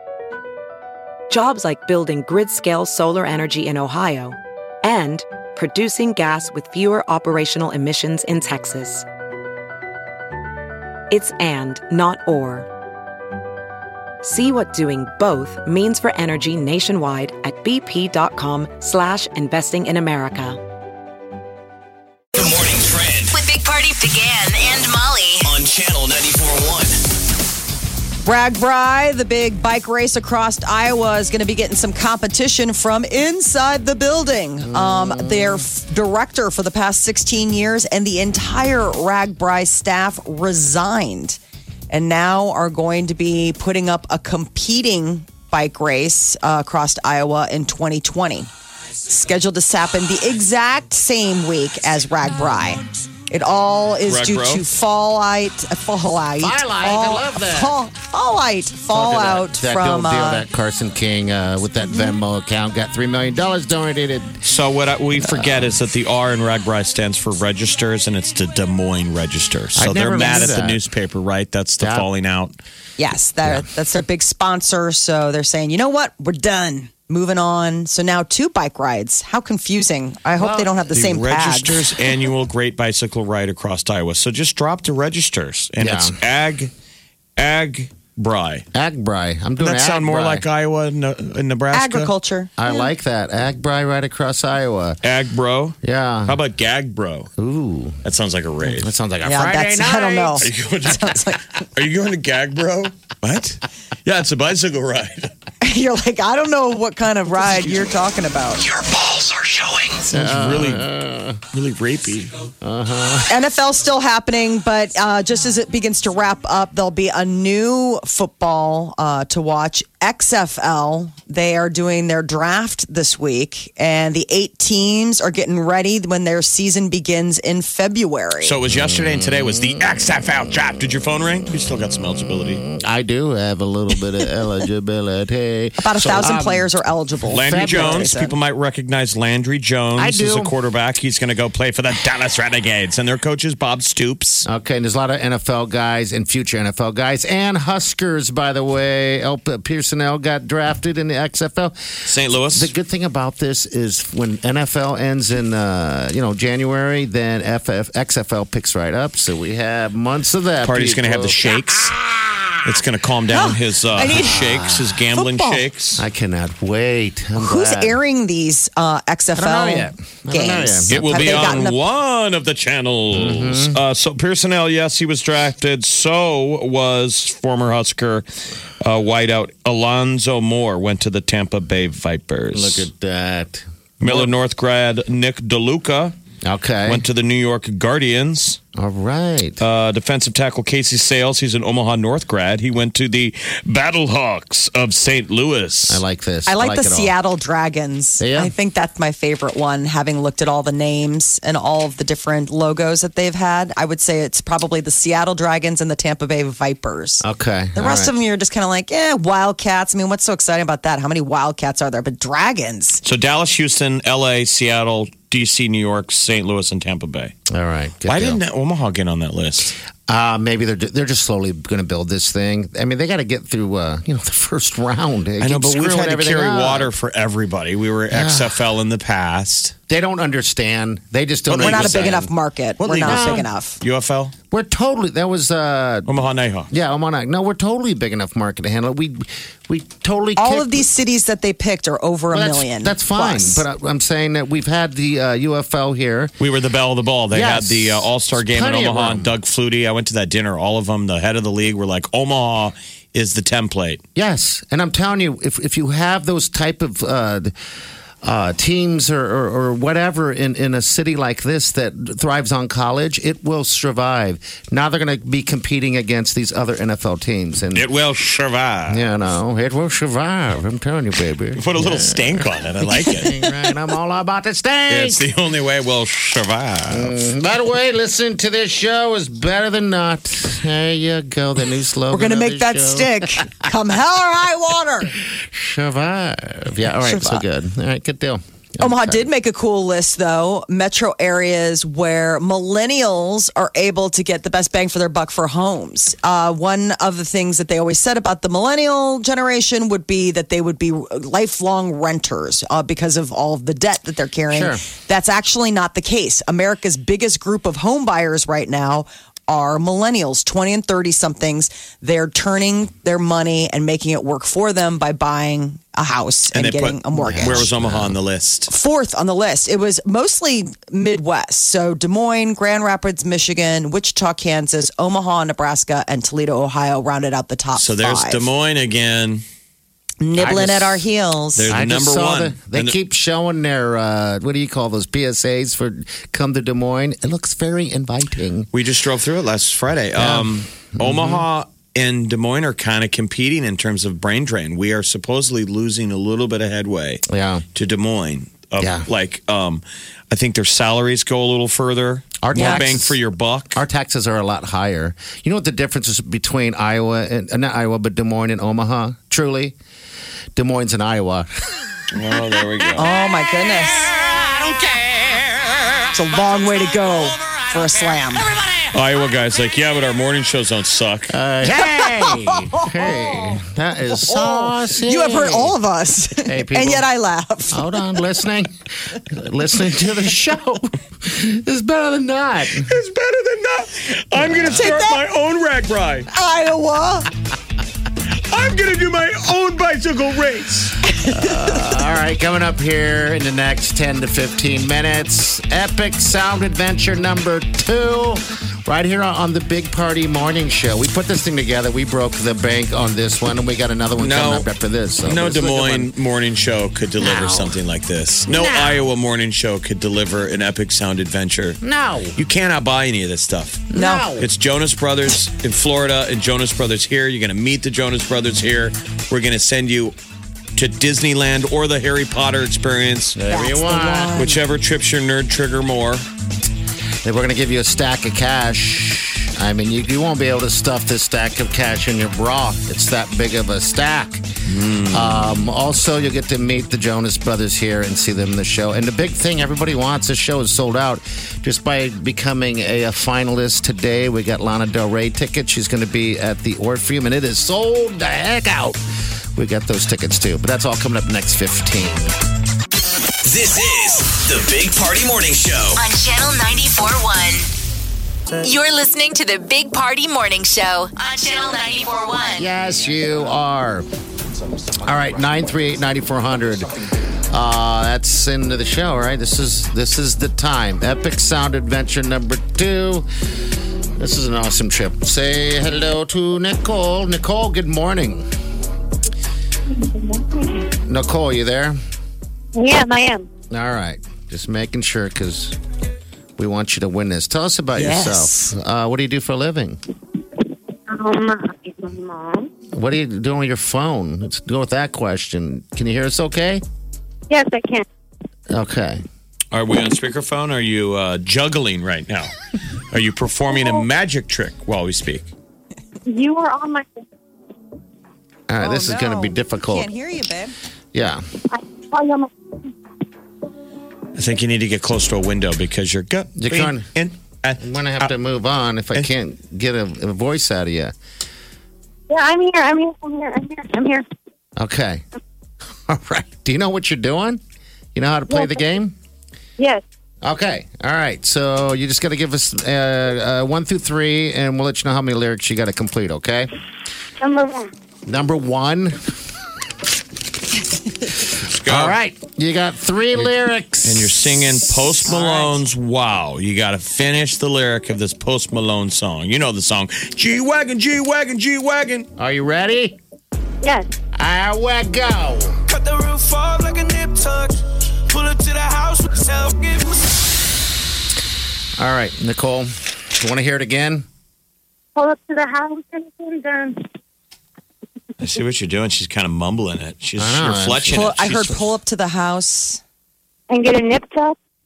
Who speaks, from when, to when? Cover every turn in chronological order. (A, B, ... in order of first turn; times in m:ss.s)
0:01.3-0:09.0 A
0:11.1-0:12.7 A
0:14.2-0:20.6 A
0:22.3-0:23.4 B
0:23.3-0:25.5 C
0:25.4-0:27.0 B
0:28.2-0:41.4 D
0:34.6-0:35.7 E
0:41.9-0:48.5 D
0:49.1-1:00.5 D
0:54.0-0:54.6 F
0:56.4-0:57.7 E
0:58.9-1:04.4 E
1:01.8-1:02.2 D
1:04.4-1:12.6 F
1:05.2-1:05.8 E
1:09.7-1:10.8 E
1:11.8-1:12.1 E
1:13.0-1:22.1 D
1:20.4-1:20.8 E
1:20.9-1:26.7 F
1:25.8-1:26.2 E
1:27.4-1:28.6 F
1:28.7-1:30.4 E
1:29.6-1:32.1 F
1:31.7-1:32.8 D
1:32.6-1:35.0 E
1:35.0-1:37.3 F
1:35.8-1:36.4 E
1:37.4-1:38.0 E
1:38.0-1:38.9 F
1:38.7-1:40.5 E
1:39.2-1:41.4 D
1:40.4-1:45.3 F
1:45.6-1:48.6 D
1:48.6-1:50.9 F
1:50.1-1:51.4 E
1:51.5-1:52.3 F
1:52.6-1:53.4 E
1:53.3-2:08.6 D
2:08.4-2:12.6 F
2:08.7-2:10.3 E
2:12.3-2:16.7 E
2:15.8-2:18.4 D
2:17.3-2:18.1 E
2:17.3-2:24.5 F
2:20.0-2:20.5 E
2:24.4-2:31.9 E
2:32.1-2:32.7 F
2:32.5-2:42.5 E
2:40.6-2:42.0 F
2:42.6-2:46.0 F
2:43.3-2:44.5 D
2:44.2-2:44.6 E
2:45.1-2:45.7 D
2:46.0-2:48.0 E
2:47.4-2:51.8 D
2:49.4-2:51.6 E
2:50.9-2:58.2 F
2:53.1-2:53.8 E
2:58.8-3:02.9 F
3:02.5-3:04.3 E
3:04.0-3:06.1 F
3:06.4-3:07.1 E
3:06.8-3:08.6 F
3:08.8-3:09.6 E
3:09.6-3:16.0 F
3:15.9-3:17.1 E
3:16.4-3:33.0 D
3:18.2-3:18.5 E
3:27.2-3:28.1 E
3:33.0-3:37.3 F
3:37.5-3:38.4 E
3:38.0-3:39.8 F
3:40.1-3:46.9 E
3:45.4-3:49.7 F
3:48.1-3:48.6 E
3:49.9-3:52.3 E
3:51.5-3:52.3 F
3:51.6-3:53.8 D
3:52.8-3:54.3 F
3:53.0-3:53.5 E
3:54.5-3:56.1 E
3:56.1-3:56.7 F
3:56.7-4:00.9 E
4:00.4-4:03.6 D
4:02.3-4:06.3 E
4:06.4-4:14.0 F
4:07.3-4:09.4 E
4:14.2-4:17.5 E
4:18.2-4:27.9 E
4:27.7-4:29.0 F
4:28.9-4:32.5 E
4:31.6-4:33.3 F
4:33.1-4:35.2 E
4:34.9-4:37.2 F
4:36.9-4:43.3 E
4:42.1-4:45.2 D
4:45.3-4:49.3 E
4:46.9-4:47.4 D
4:48.8-5:17.7 D
5:04.5-5:04.8 E
5:16.5-5:18.7 F
5:17.1-5:18.2 E
5:18.7-5:28.5 D
5:27.8-5:29.4 F
5:30.2-5:31.7 D
5:30.3-5:31.0 E
5:30.5-5:30.9 F
5:31.6-5:33.0 F
5:31.7-5:38.7 E
5:38.7-5:47.2 F
5:40.1-5:41.4 E
5:47.3-5:47.6 E
5:47.8-5:53.8 F
5:48.8-5:49.0 E
5:52.4-5:53.2 E
5:52.5-5:52.9 D
5:53.8-5:59.8 E
6:00.6-6:01.5 E
6:02.1-6:03.1 F
6:03.0-6:04.2 D
6:06.1-6:08.5 D
6:08.9-6:11.3 F
6:11.3-6:15.8 E
6:11.8-6:13.6 D
6:14.3-6:18.2 D
6:16.4-6:17.1 E
6:17.7-6:22.9 E
6:22.6-6:26.3 F
6:24.4-6:24.8 E
6:24.8-6:25.2 D
6:26.3-6:27.3 D
6:28.3-6:31.0 F
6:31.1-6:31.8 D
6:31.3-6:46.1 E
6:44.2-6:44.7 F
6:45.2-6:51.8 F
6:47.2-6:47.7 E
6:48.5-6:49.1 E
6:51.8-6:52.4 E
6:52.3-7:00.1 F
6:53.9-6:54.5 E
6:53.9-6:54.3 D
7:00.8-7:03.4 F
7:03.3-7:04.4 E
7:03.5-7:04.6 D
7:04.3-7:06.2 F
7:07.2-7:14.4 E
7:14.6-7:15.6 F
7:15.1-7:29.0 E
7:29.6-7:32.3 E
7:33.4-7:36.0 B
7:36.0-7:37.7 C
7:38.6-7:42.6 C
7:42.6-7:44.1 E
7:44.9-7:46.9 E
7:47.5-7:53.3 E
7:54.2-7:58.4 E
7:59.9-8:00.9 G
8:01.0-8:02.0 E
8:02.8-8:03.5 G
8:03.7-8:05.8 E
8:06.6-8:10.0 E
8:08.0-8:08.7 D
8:11.1-8:12.7 G
8:12.9-8:16.8 E
8:17.5-8:18.1 G
8:18.7-8:19.2 E
8:19.7-8:22.5 F
8:23.1-8:25.5 F
8:26.2-8:27.2 G
8:28.7-8:30.1 E
8:28.8-8:30.7 D
8:31.1-8:31.4 E
8:31.7-8:32.9 G
8:34.4-8:38.3 F
8:36.6-8:37.1 E
8:37.8-8:41.1 E
8:42.3-8:44.2 G
8:44.8-8:45.2 E
8:46.0-8:47.6 E
8:48.1-8:49.1 E
8:48.5-8:48.8 G
8:50.4-8:56.7 E
8:57.4-8:57.9 G
8:58.2-8:59.3 E
9:01.5-9:02.2 F
9:01.9-9:04.8 E
9:04.0-9:12.3 F
9:12.4-9:13.2 E
9:13.8-9:14.1 G
9:14.4-9:15.8 E
9:15.9-9:17.8 H
9:18.4-9:20.3 H
9:22.0-9:24.2 E
9:25.2-9:27.1 G
9:28.4-9:31.9 F
9:30.4-9:31.8 E
9:31.1-9:33.0 D
9:33.7-9:34.6 G